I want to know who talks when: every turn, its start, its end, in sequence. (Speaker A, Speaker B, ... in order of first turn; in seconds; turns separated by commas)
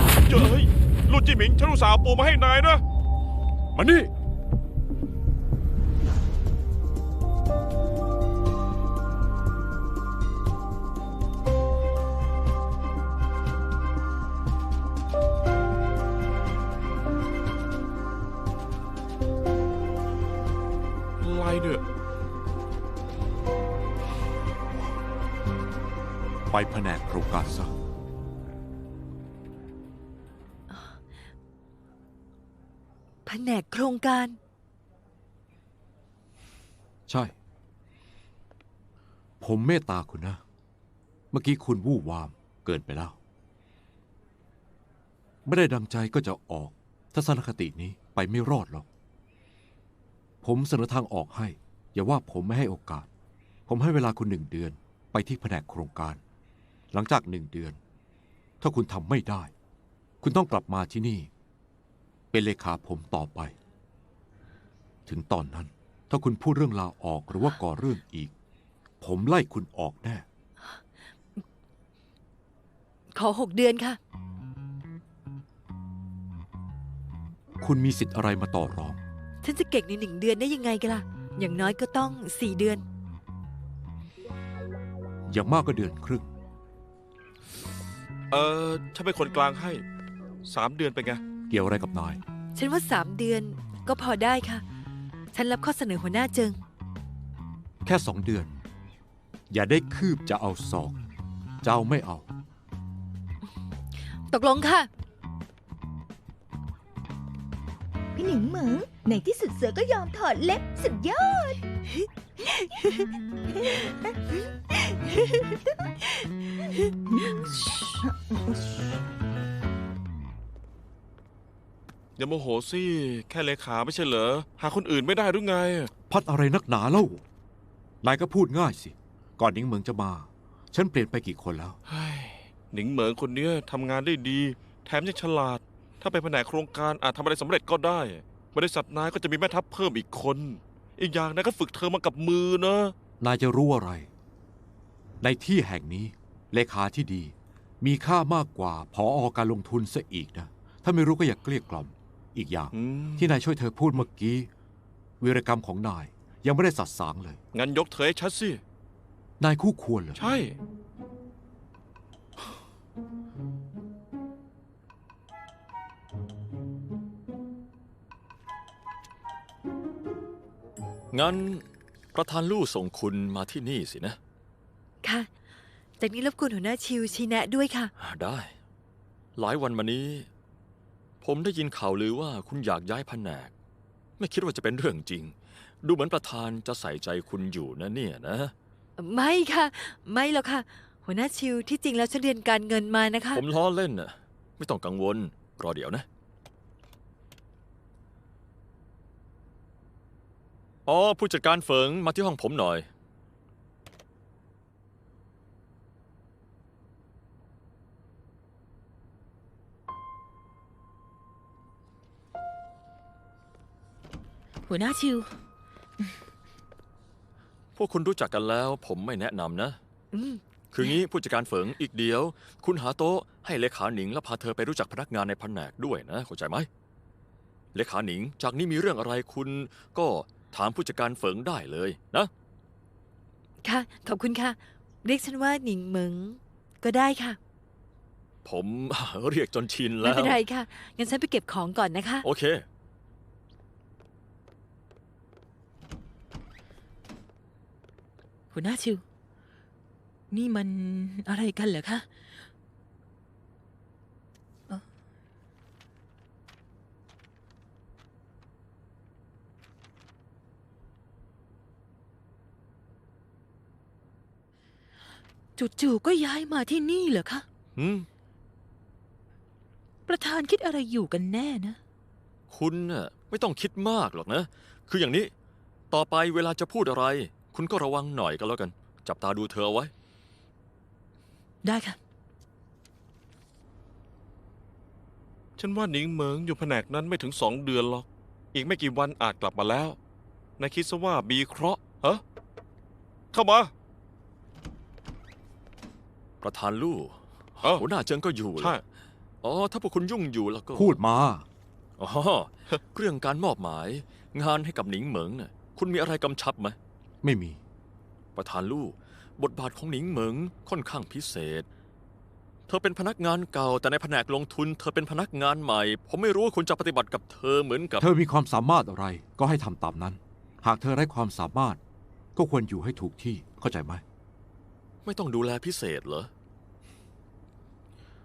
Speaker A: 0.2-2.8, Speaker B: 3.7-4.1, Speaker A: 21.2-21.8, Speaker B: 26.5-27.7, Speaker C: 30.7-31.0, Speaker C: 33.2-34.4, Speaker B: 37.1-37.3, Speaker B: 39.4-40.4, Speaker B: 41.3-43.2, Speaker B: 45.5-48.9, Speaker B: 50.4-53.1, Speaker B: 53.7-56.2, Speaker B: 56.9-57.8, Speaker B: 58.6-59.5, Speaker B: 60.2-61.3, Speaker B: 62.3-63.5, Speaker B: 65.1-68.3, Speaker B: 69.0-70.2, Speaker C: 70.6-71.4, Speaker C: 73.1-74.0, Speaker B: 77.6-79.0, Speaker C: 79.4-82.8, Speaker B: 85.3-86.3, Speaker A: 88.3-89.8, Speaker A: 90.4-91.2, Speaker B: 91.5-92.2, Speaker C: 92.5-94.6, Speaker C: 95.3-96.6, Speaker B: 97.8-98.6, Speaker B: 99.5-101.0, Speaker B: 101.6-102.2, Speaker C: 104.3-104.9, Speaker D: 108.1-111.6, Speaker C: 111.8-113.1, Speaker D: 113.6-114.1, Speaker C: 115.0-115.4, Speaker C: 116.0-118.0, Speaker D: 117.1-118.8, Speaker A: 122.2-125.9, Speaker B: 126.1-127.2, Speaker B: 128.0-131.8, Speaker A: 131.9-142.9, Speaker B: 143.2-144.1, Speaker B: 145.2-154.5, Speaker A: 152.7-153.3, Speaker B: 155.2-157.4, Speaker A: 157.5-158.6, Speaker B: 159.4-160.2, Speaker A: 160.2-160.6, Speaker E: 171.1-174.2, Speaker C: 175.0-175.3, Speaker C: 176.0-177.9, Speaker E: 178.0-178.5, Speaker E: 179.3-180.3, Speaker E: 181.2-183.5, Speaker E: 184.2-188.5, Speaker C: 189.0-193.4, Speaker E: 193.3-196.1, Speaker E: 200.8-202.9, Speaker F: 214.7-215.3, Speaker E: 217.8-219.8, Speaker C: 220.1-220.9, Speaker E: 220.7-226.7, Speaker E: 227.7-232.3, Speaker C: 233.6-237.4, Speaker E: 238.4-240.4, Speaker C: 240.0-242.3, Speaker E: 242.2-242.6, Speaker F: 248.5-249.0, Speaker F: 250.3-252.1, Speaker F: 265.6-267.4, Speaker E: 267.8-268.1, Speaker F: 270.1-271.8, Speaker E: 272.5-275.3, Speaker E: 275.9-279.9, Speaker F: 281.6-282.0, Speaker A: 285.6-290.0, Speaker A: 290.6-292.2, Speaker A: 293.3-293.7, Speaker E: 296.4-298.8, Speaker E: 299.4-301.0, Speaker B: 300.7-301.5, Speaker E: 302.0-306.8, Speaker B: 307.2-307.6, Speaker E: 308.4-311.6, Speaker E: 312.7-318.1, Speaker B: 318.0-321.8, Speaker B: 322.4-324.0, Speaker E: 325.0-326.3